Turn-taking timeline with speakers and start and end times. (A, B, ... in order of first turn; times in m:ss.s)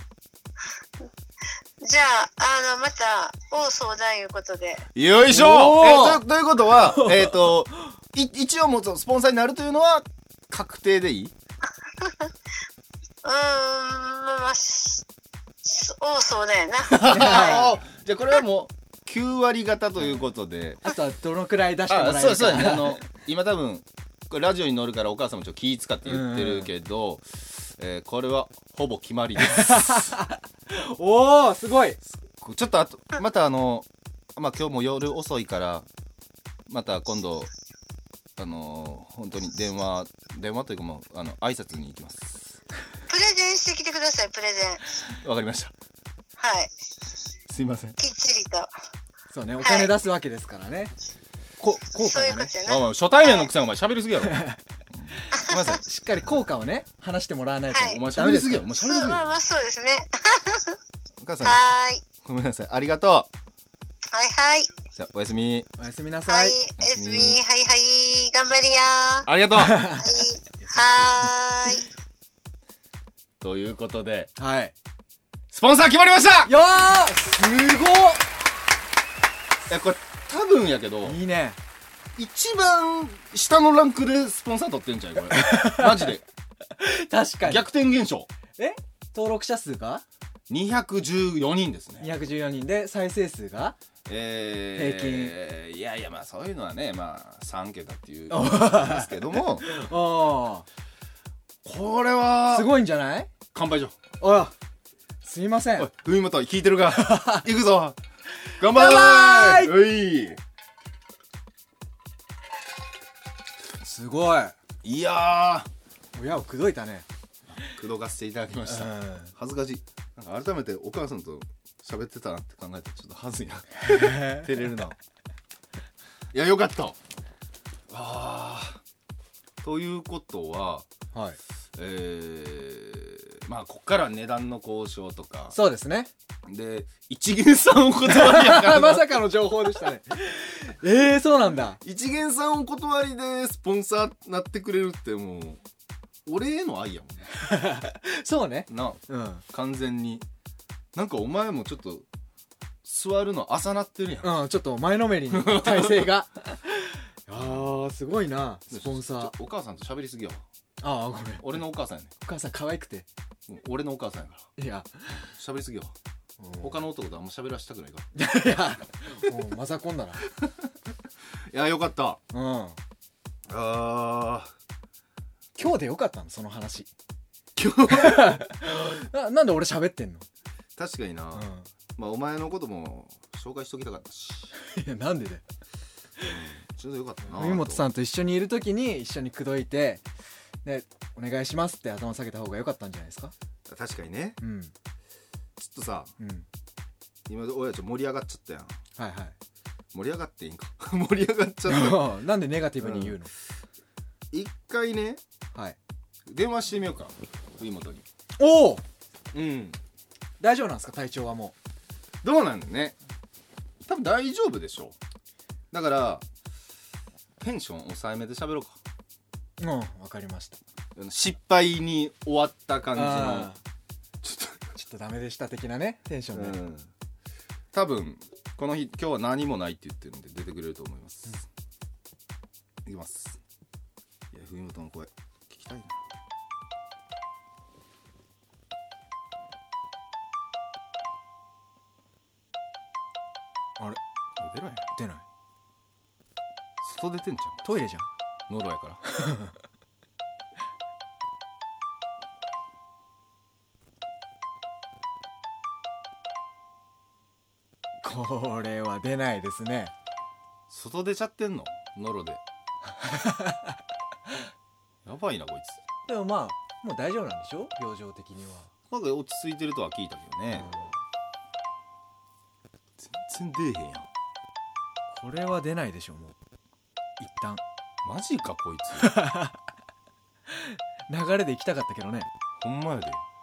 0:01.8-0:04.8 A
0:04.9-0:11.3 B
0:05.3-0:06.2 C
0:07.0-0:07.3 C
0:13.2-0:15.0 A
0:15.6-0:17.7 A
0:16.9-0:20.8 B
0:17.0-0:17.7 C
0:20.8-0:23.0 C
0:21.9-0:30.1 B
0:26.0-0:26.7 C
0:29.4-0:32.0 C
0:32.1-0:35.9 B
0:36.7-0:37.5 B
0:38.4-0:42.5 B
0:43.1-0:44.8 A
0:45.2-0:45.7 B
0:46.4-0:46.7 A
0:47.5-0:48.0 B
0:48.0-0:48.7 A
0:49.3-0:50.9 C
0:49.6-0:49.9 A
0:51.6-0:52.5 C
0:52.0-0:53.5 A
0:52.6-0:55.8 B
0:54.3-0:54.6 C
0:55.4-0:58.7 C
0:57.7-0:58.0 A
0:57.8-0:59.2 B
0:58.7-1:00.8 A
1:01.2-1:01.6 B
1:01.4-1:02.0 A
1:02.2-1:03.3 B
1:04.1-1:04.7 A
1:05.0-1:05.7 B
1:05.8-1:06.6 C
1:06.3-1:09.3 A
1:06.8-1:07.4 B
1:09.2-1:09.9 B
1:09.6-1:10.1 C
1:10.0-1:11.9 A
1:10.6-1:11.1 C
1:13.4-1:14.3 B
1:14.4-1:14.7 C
1:15.5-1:16.5 B
1:16.4-1:18.2 C
1:19.7-1:21.2 B
1:21.0-1:21.6 C
1:22.2-1:26.2 B
1:25.3-1:25.9 C
1:26.8-1:27.7 C
1:27.4-1:28.3 B
1:28.6-1:30.0 C
1:30.5-1:32.1 B
1:32.0-1:33.8 C
1:34.0-1:39.6 B
1:34.7-1:35.3 C
1:38.3-1:40.6 C
1:41.6-1:42.7 B
1:42.5-1:43.3 C
1:43.5-1:43.9 B
1:44.2-1:44.5 C
1:45.2-1:45.9 C
1:45.8-1:48.0 B
1:46.9-1:47.4 C
1:48.6-1:50.4 B
1:48.6-1:49.7 C
1:53.8-1:54.5 C
1:54.8-1:55.7 B
1:56.1-1:57.0 C
1:57.5-2:05.0 B
1:58.6-1:59.3 C
2:03.8-2:04.5 C
2:06.3-2:07.0 B
2:07.9-2:08.8 B
2:09.6-2:10.9 B
2:11.1-2:11.4 C
2:11.7-2:15.6 B
2:15.5-2:16.1 C
2:16.5-2:19.2 B
2:18.0-2:21.8 C
2:21.8-2:25.6 B
2:26.2-2:27.3 B
2:27.4-2:29.4 C
2:28.7-2:30.2 B
2:30.9-2:32.0 B
2:32.8-2:34.4 B
2:34.2-2:39.3 C
2:35.3-2:36.1 B
2:37.3-2:37.8 B
2:38.7-2:40.4 B
2:40.8-2:41.6 C
2:41.4-2:42.1 B
2:42.2-2:43.1 C
2:43.5-2:44.5 B
2:44.6-2:45.1 C
2:45.4-2:45.9 B
2:46.4-2:46.7 C
2:46.6-2:48.1 B
2:48.1-2:50.2 C
2:51.5-2:52.2 B
2:52.3-2:52.8 C
2:53.5-2:54.5 B
2:55.6-2:56.9 C
2:57.6-2:58.4 B
2:57.9-3:00.2 C
3:00.8-3:04.5 B
3:01.3-3:01.7 C
3:04.6-3:05.4 C
3:06.2-3:07.8 B
3:07.3-3:10.0 C
3:10.6-3:13.3 C
3:13.7-3:14.4 B
3:14.4-3:14.7 C
3:15.6-3:16.1 B
3:16.2-3:16.4 C
3:17.3-3:18.7 B
3:19.0-3:19.4 C
3:19.9-3:22.1 B
3:21.6-3:23.3 C
3:22.8-3:23.2 B
3:24.3-3:25.2 B
3:26.3-3:28.0 B
3:28.4-3:28.8 C
3:29.3-3:29.8 B
3:30.4-3:31.5 C
3:32.2-3:33.0 B
3:33.8-3:35.0 B
3:35.7-3:36.2 B
3:37.4-3:38.8 B
3:39.6-3:40.6 C
3:41.0-3:43.5 B
3:42.9-3:43.6 C
3:44.2-3:44.7 B
3:44.8-3:46.6 C
3:46.3-3:46.9 B
3:47.7-3:51.4 B
3:52.8-3:53.4 B
3:54.3-3:56.0 B
4:04.4-4:04.9 B
4:04.9-4:05.2 C
4:06.8-4:07.7 B
4:07.6-4:08.1 C
4:08.5-4:09.0 B
4:09.1-4:09.5 C
4:18.0-4:19.9 C
4:20.7-4:22.4 B
4:23.0-4:23.7 C
4:25.0-4:25.8 B
4:26.1-4:28.7 C
4:28.9-4:30.7 B
4:30.5-4:30.9 C
4:33.0-4:34.1 B
4:35.1-4:36.3 C
4:37.2-4:37.6 C
4:38.0-4:39.2 B
4:39.0-4:39.6 C
4:40.5-4:42.3 C
4:42.6-4:43.2 B